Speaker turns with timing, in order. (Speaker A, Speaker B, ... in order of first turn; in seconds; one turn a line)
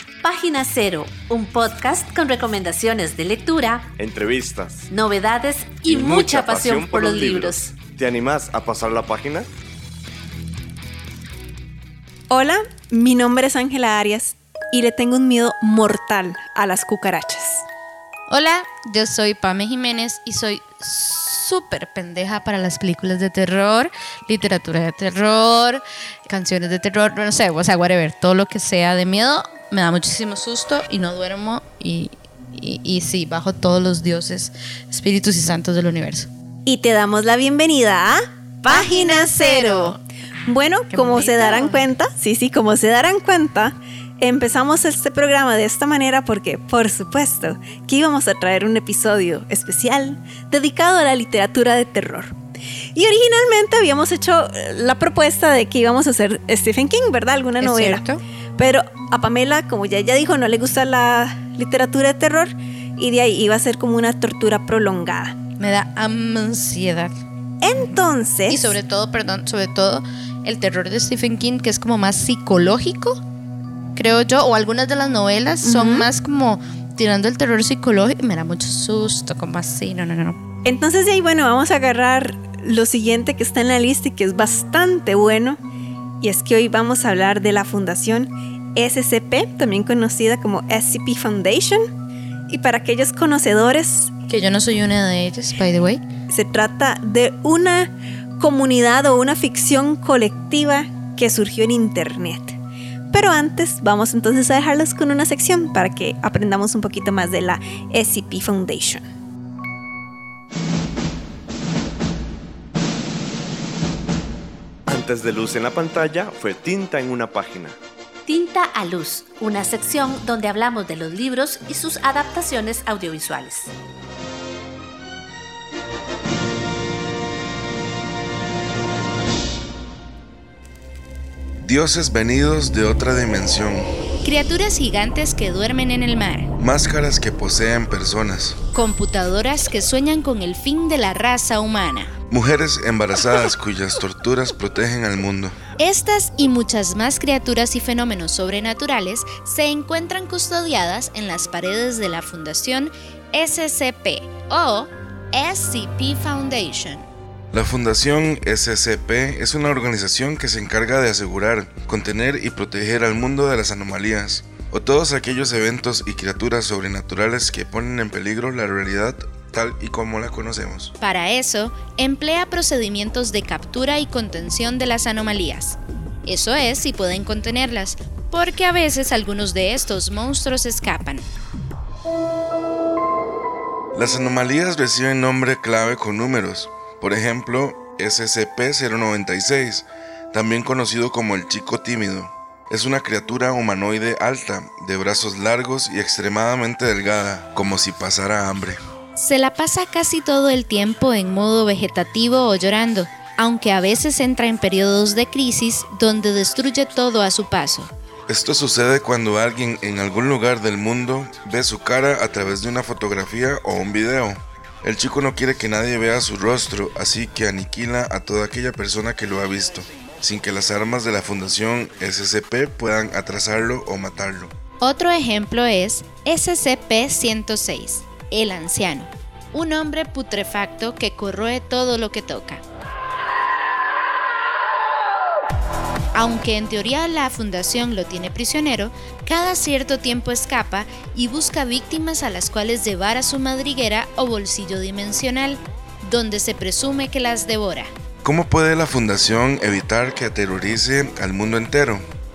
Speaker A: 0.2-3.9
Speaker B: 4.0-4.8
Speaker A: 4.9-7.7
Speaker B: 5.8-9.5
Speaker C: 12.3-17.6
Speaker D: 18.3-36.3
Speaker C: 36.6-52.4
Speaker D: 38.7-40.0
Speaker D: 40.9-41.8
Speaker C: 52.9-58.0
Speaker D: 57.6-58.2
Speaker C: 58.6-65.4
Speaker D: 65.6-67.2
Speaker C: 67.6-68.8
Speaker D: 68.5-73.2
Speaker D: 73.9-80.4
Speaker C: 75.6-76.1
Speaker C: 80.6-85.6
Speaker C: 86.2-91.9
Speaker C: 92.5-94.1
Speaker D: 94.3-96.0
Speaker C: 96.3-102.6
Speaker C: 103.1-109.0
Speaker B: 114.9-117.8
Speaker A: 118.3-123.7
Speaker E: 131.6-133.9
Speaker D: 134.2-136.5
Speaker E: 136.6-138.6
Speaker D: 138.7-142.1
Speaker E: 142.3-145.6
Speaker D: 145.8-157.0
Speaker E: 157.5-170.9
Speaker D: 171.0-181.3
Speaker E: 183.9-198.8
Speaker D: 199.2-207.9
Speaker E: 208.3-224.5
Speaker D: 224.8-232.6
Speaker D: 236.1-247.9
Speaker E: 248.2-252.0